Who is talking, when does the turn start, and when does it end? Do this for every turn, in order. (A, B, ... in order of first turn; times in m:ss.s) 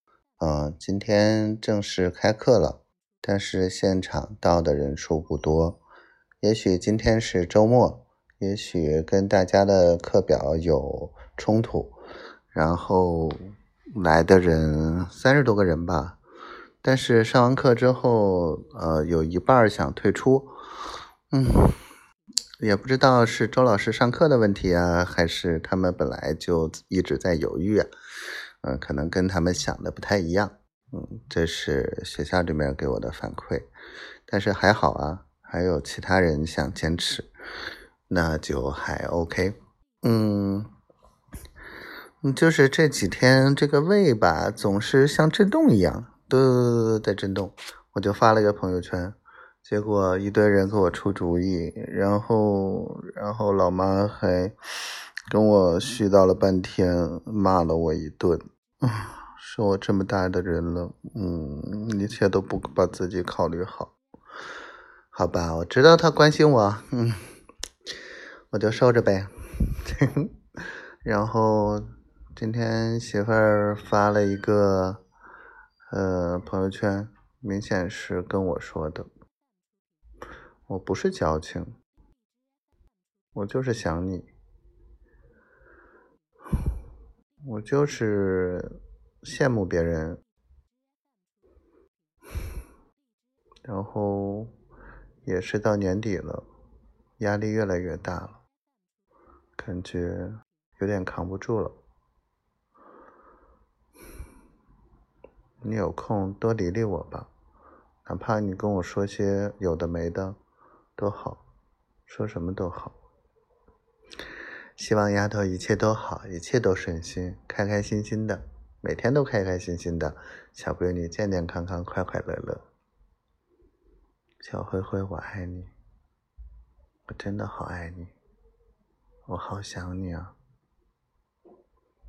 0:00.4-0:05.8 A
0:06.4-0:12.0 A
0:12.5-0:13.4 A
0:13.9-0:16.2 A
0:16.8-0:20.6 A
0:21.3-0:21.8 A
0:22.6-0:27.9 A
0:28.6-0:33.7 A
0:34.3-0:37.3 A
0:38.1-0:40.7 A
0:42.2-0:54.5 A
0:55.3-1:03.9 A
1:05.1-1:07.2 A
1:08.5-1:10.3 A
1:11.0-1:15.0 A
1:15.9-1:19.1 A
1:20.7-1:21.7 A
1:23.3-1:24.3 A
1:27.4-1:30.2 A
1:33.6-1:34.5 A
1:35.2-1:36.4 A
1:37.2-1:38.4 A
1:39.6-1:41.8 A
1:45.6-1:47.3 A
1:48.0-1:50.4 A
1:51.0-1:51.4 A
1:52.1-1:53.0 A
1:54.8-2:02.6 A
2:04.4-2:05.7 A
2:07.1-2:08.1 A
2:09.3-2:10.3 A